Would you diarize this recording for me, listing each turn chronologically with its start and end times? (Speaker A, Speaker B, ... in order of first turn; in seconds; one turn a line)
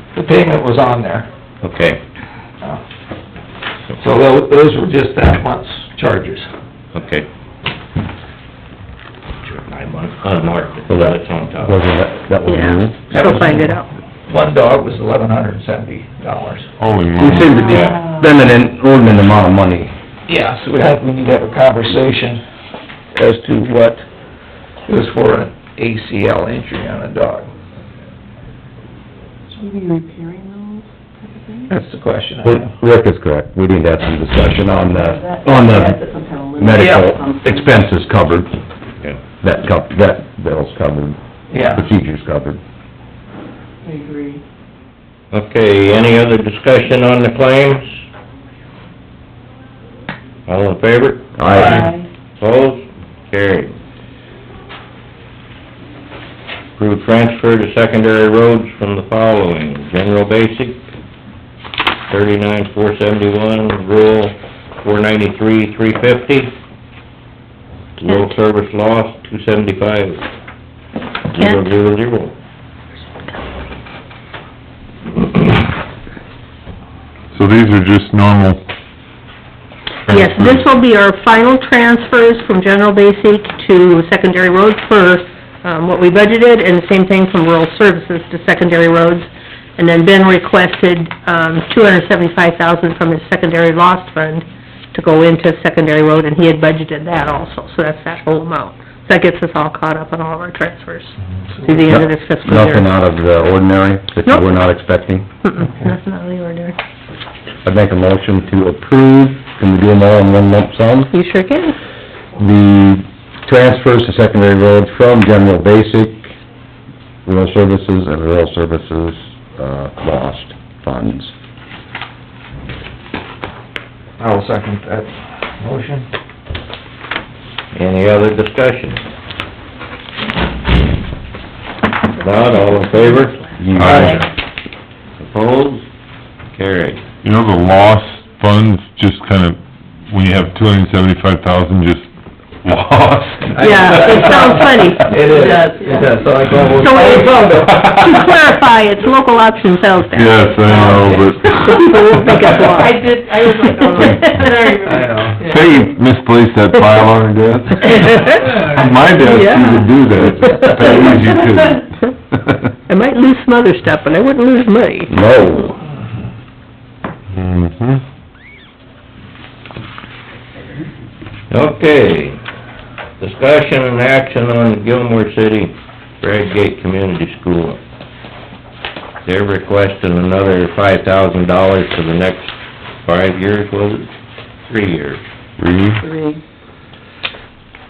Speaker A: 0.1-1.3
Speaker B: 1.6-2.0
Speaker A: 4.0-6.5
Speaker B: 6.9-7.3
Speaker B: 9.4-11.8
Speaker C: 10.9-13.0
Speaker D: 12.4-13.9
Speaker A: 13.1-16.7
Speaker E: 16.8-17.6
Speaker C: 17.2-19.9
Speaker B: 17.7-18.0
Speaker A: 20.3-22.4
Speaker A: 23.1-24.1
Speaker A: 24.9-27.5
Speaker F: 29.5-31.7
Speaker A: 31.7-32.7
Speaker C: 32.4-36.0
Speaker F: 34.8-37.8
Speaker C: 36.5-38.6
Speaker A: 36.8-37.0
Speaker C: 39.4-42.6
Speaker A: 41.5-41.9
Speaker F: 43.8-44.4
Speaker B: 45.3-48.0
Speaker B: 50.5-53.7
Speaker C: 51.4-51.9
Speaker A: 51.5-51.8
Speaker F: 51.6-52.1
Speaker B: 56.8-60.8
Speaker B: 62.1-66.5
Speaker B: 68.0-70.2
Speaker B: 71.3-72.3
Speaker D: 71.4-71.7
Speaker E: 77.3-78.6
Speaker E: 80.1-80.6
Speaker D: 80.1-102.9
Speaker A: 101.4-101.9
Speaker C: 101.9-105.3
Speaker D: 104.2-104.6
Speaker D: 105.4-106.8
Speaker A: 105.6-105.9
Speaker C: 107.6-111.1
Speaker D: 111.1-111.8
Speaker C: 112.4-116.3
Speaker C: 117.2-121.3
Speaker A: 124.2-126.1
Speaker B: 127.7-129.0
Speaker B: 132.2-134.1
Speaker D: 132.6-133.2
Speaker C: 133.6-134.2
Speaker E: 133.7-134.2
Speaker A: 133.8-134.1
Speaker B: 135.2-135.8
Speaker B: 136.5-137.0
Speaker E: 137.2-142.1
Speaker E: 142.6-143.9
Speaker A: 143.5-148.2
Speaker D: 143.6-145.2
Speaker F: 143.9-144.4
Speaker F: 145.2-147.2
Speaker E: 146.5-146.8
Speaker D: 146.8-150.7
Speaker E: 150.1-152.5
Speaker F: 150.6-151.1
Speaker A: 150.7-151.2
Speaker D: 151.5-153.0
Speaker F: 152.7-155.9
Speaker D: 153.8-154.4
Speaker E: 154.0-154.4
Speaker A: 154.8-155.4
Speaker E: 155.4-161.8
Speaker D: 159.2-161.2
Speaker D: 162.9-165.1
Speaker C: 165.1-165.7
Speaker E: 167.3-168.0
Speaker B: 171.5-172.4
Speaker B: 173.2-177.8
Speaker B: 179.2-182.5
Speaker B: 183.0-184.1
Speaker B: 184.7-185.2
Speaker E: 185.6-186.0
Speaker F: 186.0-186.4